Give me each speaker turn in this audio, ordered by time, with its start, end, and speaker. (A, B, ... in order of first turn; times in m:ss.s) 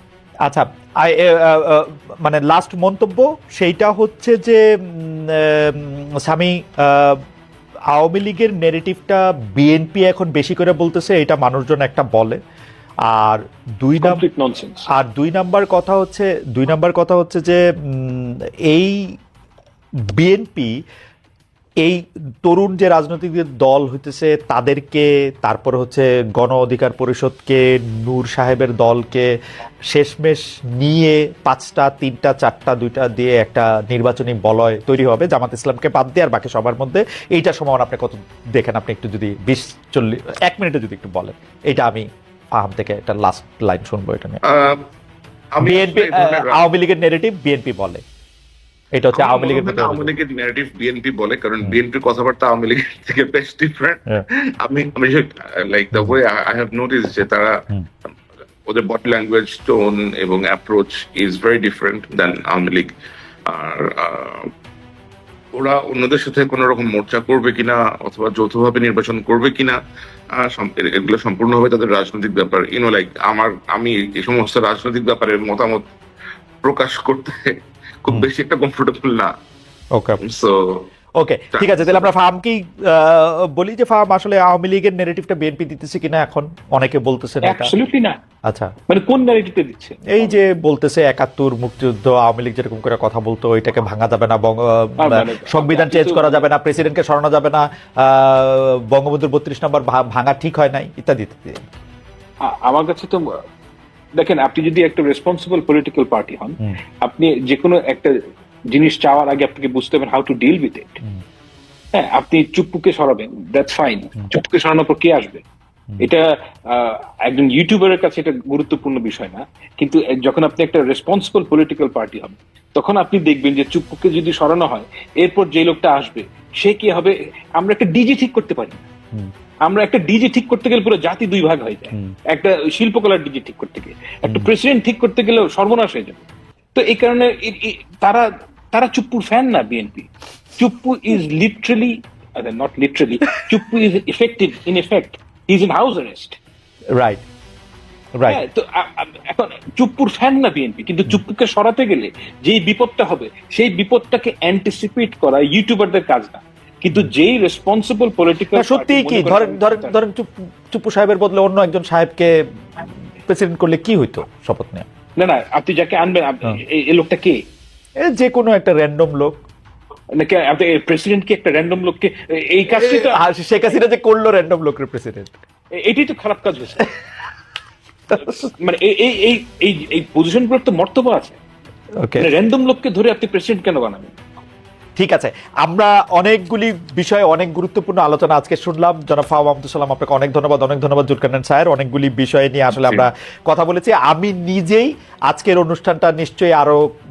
0:00.5-0:07.2 A
0:07.9-0:12.4 A
0:13.1-0:14.2 A
0:14.0-0:14.9 B
0:14.9-0:19.0 A
0:20.2-0:20.7 A
0:21.8-0:29.3 A
0:29.9-0:42.0 A
0:42.6-0:44.4 A
0:44.4-0:44.8 C
0:45.5-0:46.6 C
0:45.6-0:48.0 A
0:48.9-0:50.1 A
0:49.1-0:54.0 C
0:54.6-0:57.6 C
0:58.6-1:02.9 C
1:03.4-1:04.5 C
1:05.5-1:09.8 C
1:10.3-1:15.9 C
1:16.6-1:19.3 C
1:19.9-1:20.2 A
1:20.2-1:20.9 C
1:21.2-1:27.7 A
1:21.5-1:22.1 C
1:27.4-1:28.2 B
1:28.4-1:28.7 A
1:28.9-1:30.4 B
1:30.1-1:41.6 A
1:35.0-1:36.4 B
1:42.4-1:43.4 B
1:44.1-1:48.2 B
1:48.7-1:51.0 B
1:51.9-1:55.4 B
1:56.0-2:08.8 B
2:09.6-2:16.2 B
2:16.7-2:26.4 B
2:27.0-2:27.2 A
2:28.3-2:40.0 B
2:38.5-2:44.8 A
2:45.2-2:47.4 B
2:48.1-2:49.4 A
2:50.1-2:53.2 B
2:52.7-2:55.4 A
2:55.8-2:56.9 B
2:58.2-3:01.4 B
3:02.0-3:02.3 A
3:02.2-3:04.1 B
3:05.0-3:16.8 A
3:12.8-3:13.1 C